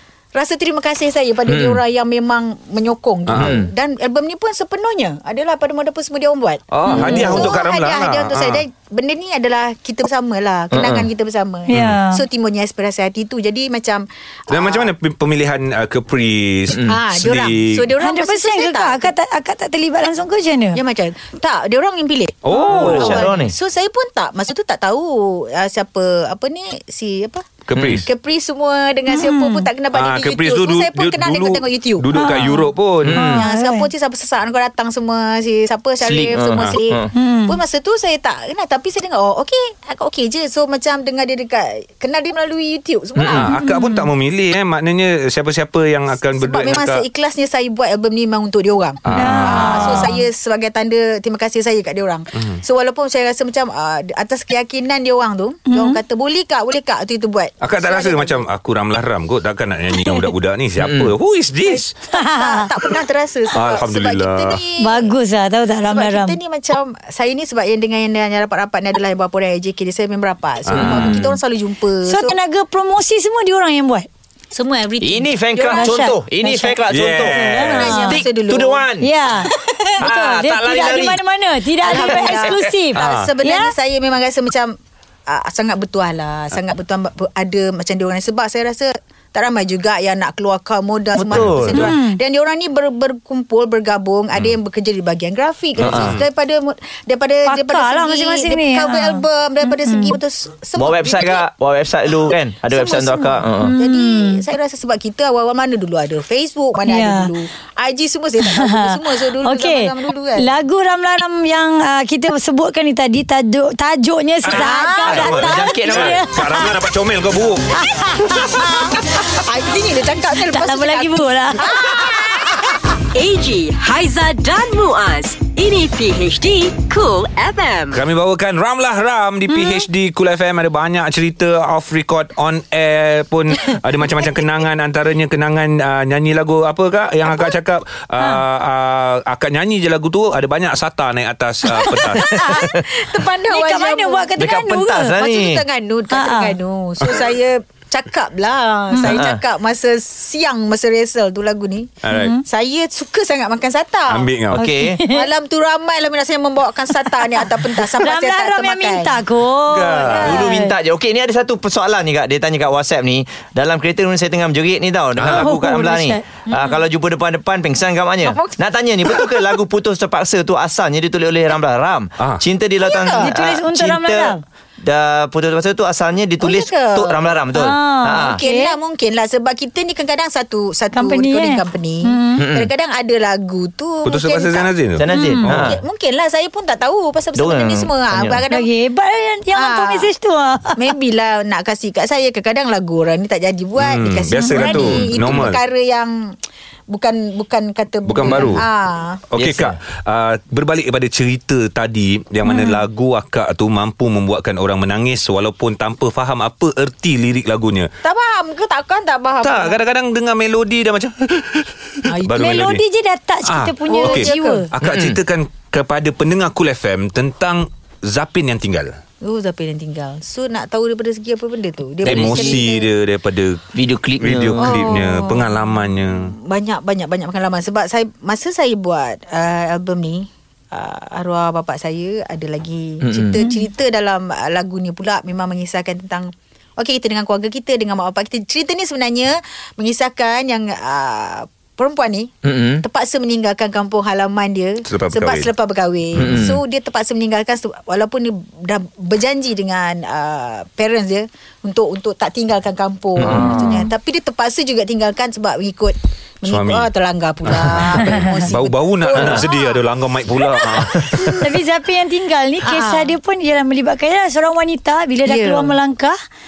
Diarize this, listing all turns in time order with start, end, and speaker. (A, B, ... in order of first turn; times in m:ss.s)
0:00.3-0:14.9 A
0:01.5-0:01.8 B
0:03.3-0:03.6 C
0:03.3-0:03.7 B
0:06.7-0:08.6 C
0:06.9-0:07.5 B
0:06.9-0:07.5 D
0:10.7-0:11.1 B
0:11.7-0:12.2 D
0:14.5-0:17.9 C
0:16.7-0:19.1 A
0:18.0-0:20.8 D
0:20.7-0:27.5 A
0:22.4-0:23.3 C
0:22.6-0:23.6 B
0:27.7-0:28.0 C
0:27.8-0:28.0 B
0:28.0-0:32.1 A
0:29.1-0:29.7 D
0:29.9-0:33.2 C
0:32.2-0:33.9 D
0:33.0-0:33.4 B
0:33.3-0:43.6 A
0:36.0-0:37.1 B
0:37.1-0:37.6 D
0:43.2-0:43.5 B
0:43.3-0:47.0 C
0:43.5-0:44.1 D
0:46.4-0:58.5 A
0:49.0-0:50.1 C
0:49.1-0:50.2 D
0:55.7-0:56.0 D
0:57.6-1:01.9 C
1:00.8-1:01.1 B
1:01.7-1:05.1 A
1:02.1-1:02.7 D
1:03.5-1:04.6 C
1:04.8-1:06.4 D
1:05.9-1:12.4 A
1:10.7-1:11.2 C
1:10.7-1:11.4 B
1:12.0-1:14.1 D
1:14.5-1:16.1 A
1:15.0-1:19.1 B
1:15.7-1:16.8 D
1:16.9-1:17.9 C
1:17.3-1:18.2 D
1:17.6-1:18.9 A
1:19.0-1:23.7 D
1:20.0-1:21.2 B
1:21.8-1:24.7 A
1:21.9-1:22.6 B
1:23.0-1:23.3 C
1:25.3-1:41.5 A
1:31.2-1:31.9 B
1:31.3-1:31.6 C
1:31.7-1:32.2 D
1:35.8-1:36.2 B
1:35.8-1:36.2 C
1:37.5-1:40.2 D
1:40.8-1:43.7 B
1:42.7-1:50.5 A
1:43.6-1:44.4 D
1:46.9-1:47.3 D
1:48.4-1:56.7 D
1:54.4-1:57.7 C
1:54.5-1:55.2 A
1:55.0-1:56.2 B
1:57.8-1:59.0 D
1:58.2-2:02.8 A
2:00.4-2:01.9 D
2:03.1-2:08.0 E
2:07.9-2:22.5 C
2:09.5-2:09.9 D
2:22.0-2:22.9 B
2:22.2-2:31.9 A
2:23.5-2:25.2 D
2:24.4-2:25.6 B
2:26.1-2:26.6 D
2:27.0-2:27.3 C
2:28.9-2:29.2 D
2:29.0-2:29.4 B
2:32.0-2:32.4 C
2:32.1-2:32.4 D
2:32.4-2:34.3 A
2:34.1-2:34.6 C
2:34.5-2:35.0 B
2:34.6-2:35.3 D
2:35.1-2:39.2 A
2:37.1-2:40.7 D
2:39.7-2:40.4 C
2:39.9-2:40.4 A
2:40.1-2:58.4 B
2:45.2-2:45.5 C
2:45.3-2:46.2 D
2:46.5-2:46.8 A
2:48.2-2:49.5 A
2:52.8-2:53.3 A
2:53.2-2:54.4 D
2:56.4-2:57.4 A
2:57.6-2:58.8 D
2:58.1-3:04.7 A
3:00.9-3:02.4 D
3:02.4-3:02.7 B
3:04.0-3:05.7 C
3:05.0-3:05.8 B
3:05.1-3:05.5 D
3:05.5-3:08.7 A
3:07.4-3:08.4 B
3:08.5-3:10.9 D
3:09.5-3:10.1 A
3:10.8-3:16.3 A
3:13.8-3:15.6 C
3:14.6-3:15.4 B
3:16.9-3:19.2 A
3:18.1-3:18.6 C
3:18.2-3:18.6 B
3:19.3-3:27.9 C
3:19.4-3:19.8 B
3:22.4-3:22.8 D
3:28.0-3:29.8 A
3:29.4-3:32.8 C
3:32.1-3:32.6 A
3:32.4-3:34.7 D
3:33.5-3:39.0 C
3:33.9-3:34.6 A
3:34.8-3:35.2 B
3:39.2-3:42.9 A
3:42.0-3:43.6 C
3:42.0-3:42.6 B
3:43.8-3:44.7 B
3:44.2-3:46.3 C
3:44.6-4:19.8 A
3:53.0-3:53.4 B
4:02.4-4:02.8 B
4:04.9-4:05.5 C
4:06.2-4:06.4 C
4:06.2-4:06.6 B
4:13.2-4:13.7 B
4:13.2-4:13.6 C
4:16.5-4:16.9 C
4:17.5-4:21.4 C
4:20.9-4:26.2 D
4:22.6-4:23.1 A
4:25.3-4:25.8 A